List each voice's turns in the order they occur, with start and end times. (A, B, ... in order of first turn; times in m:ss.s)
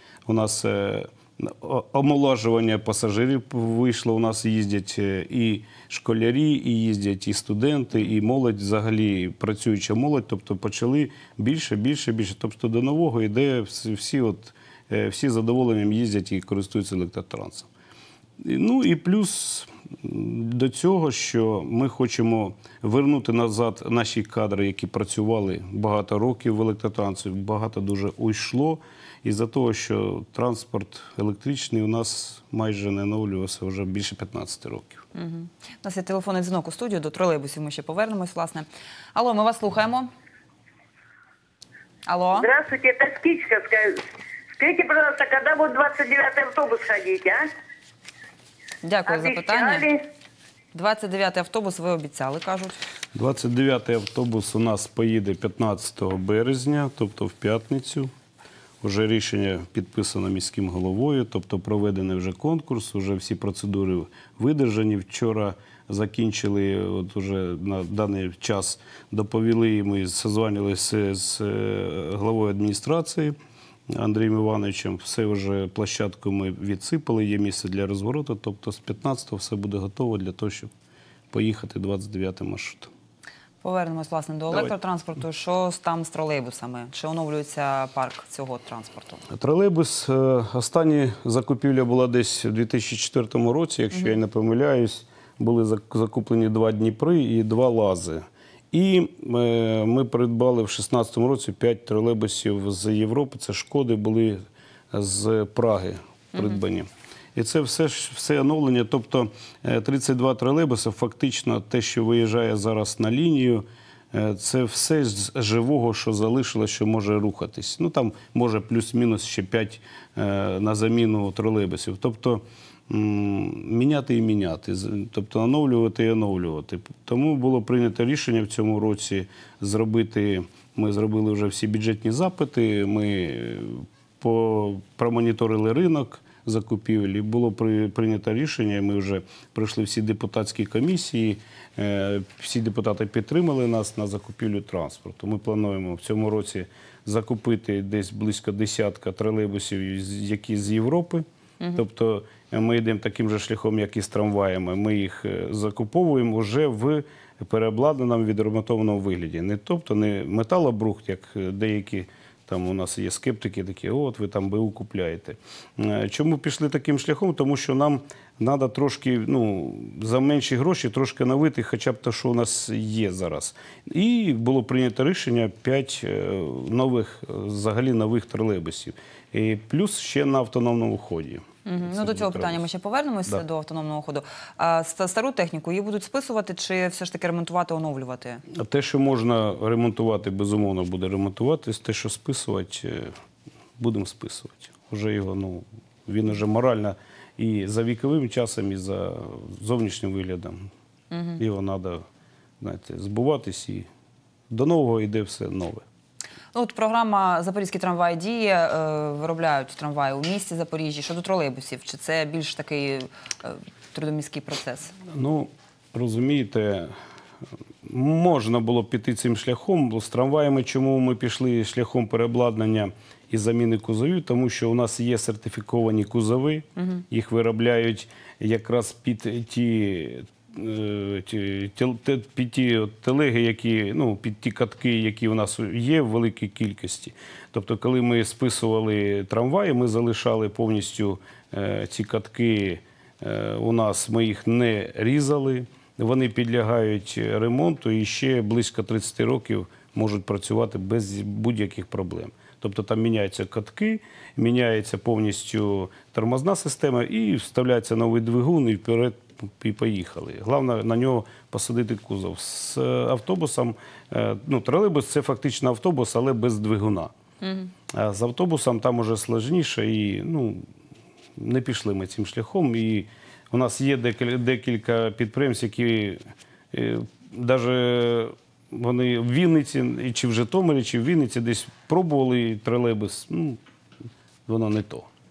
0:00.3-0:17.7 A
0:18.4-0:35.0 A
0:35.2-0:40.1 B
0:42.1-0:42.5 B
0:42.4-0:44.0 C
0:44.6-0:47.5 C
0:48.8-0:49.9 B
0:49.1-0:50.0 C
0:50.7-0:52.8 B
0:53.1-0:58.1 A
0:58.8-1:13.4 A
1:13.9-1:20.7 A
1:21.3-1:22.9 A
1:23.6-1:29.2 B
1:29.3-3:02.6 A
3:01.7-3:08.4 B
3:08.5-3:13.1 A
3:13.8-3:20.7 A
3:21.1-3:21.4 B
3:21.4-3:22.0 A
3:22.6-3:23.9 A
3:24.5-3:25.8 A
3:26.5-3:35.0 B
3:35.1-3:36.9 A
3:37.8-4:27.1 A
4:27.4-4:27.7 B
4:27.9-4:30.6 A
4:31.4-4:36.2 A
4:36.7-4:43.6 A
4:44.5-4:45.1 A